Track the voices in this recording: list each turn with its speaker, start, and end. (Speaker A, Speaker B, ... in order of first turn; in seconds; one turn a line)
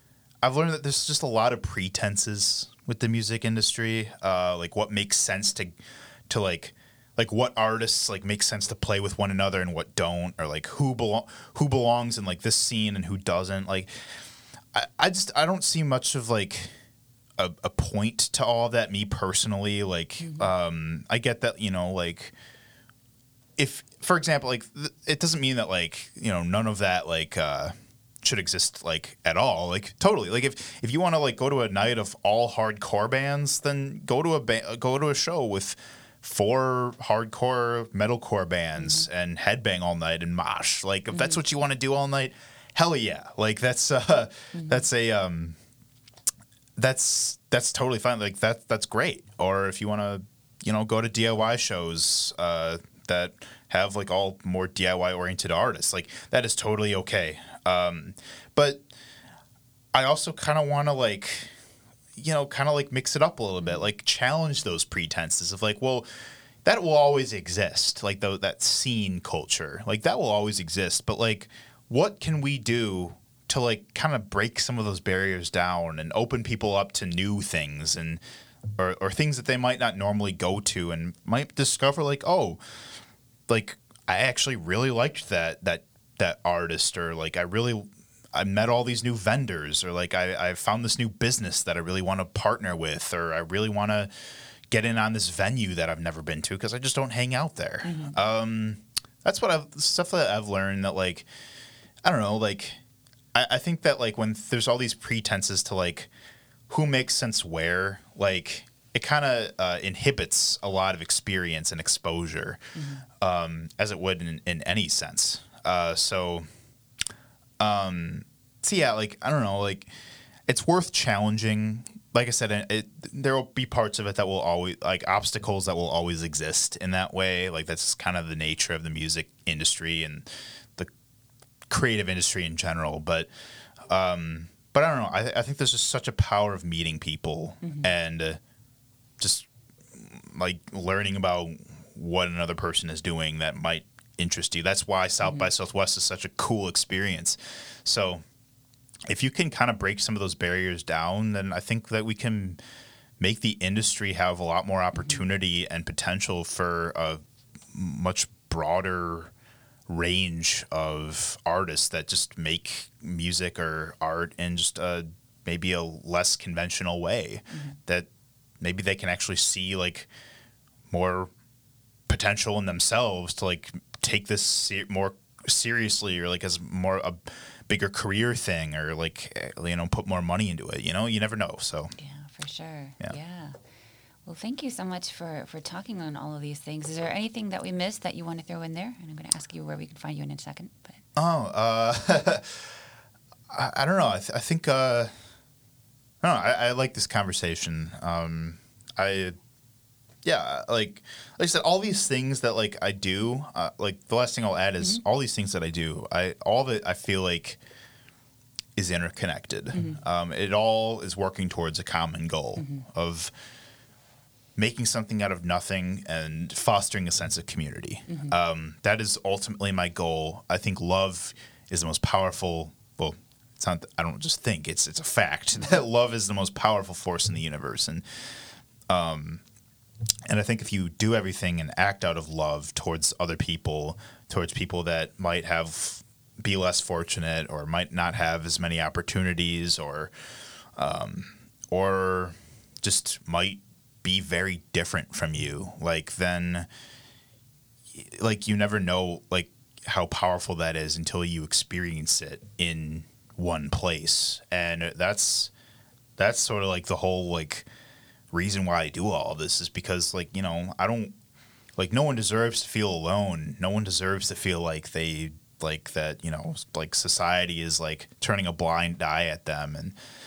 Speaker A: 0.4-5.7
Speaker A: 6.3-16.7
Speaker A: 17.4-22.3
Speaker B: 20.2-20.5
Speaker A: 23.6-45.5
Speaker B: 38.8-39.0
Speaker A: 46.8-58.8
Speaker A: 59.9-61.5
Speaker A: 62.1-66.0
Speaker A: 66.6-78.2
Speaker A: 78.8-82.6
Speaker A: 83.5-94.1
Speaker A: 94.7-101.3
Speaker B: 97.8-98.1
Speaker A: 102.0-102.8
Speaker A: 103.3-106.1
Speaker A: 106.7-116.5
Speaker B: 112.7-113.0
Speaker A: 117.6-119.9
Speaker A: 120.5-130.9
Speaker A: 131.7-133.3
Speaker A: 133.8-138.4
Speaker A: 139.2-148.2
Speaker A: 149.1-152.6
Speaker A: 153.2-159.3
Speaker A: 159.9-168.1
Speaker A: 168.6-170.1
Speaker A: 170.9-171.3
Speaker A: 172.1-181.9
Speaker B: 182.0-183.6
Speaker B: 184.2-191.0
Speaker A: 191.2-192.7
Speaker A: 193.5-195.1
Speaker A: 196.2-199.3
Speaker A: 200.2-207.6
Speaker A: 208.8-213.3
Speaker A: 214.6-228.0
Speaker A: 228.9-229.4
Speaker A: 230.2-240.1
Speaker A: 240.8-246.7
Speaker A: 247.9-255.5
Speaker A: 256.2-257.7
Speaker A: 258.3-261.1
Speaker A: 261.8-269.9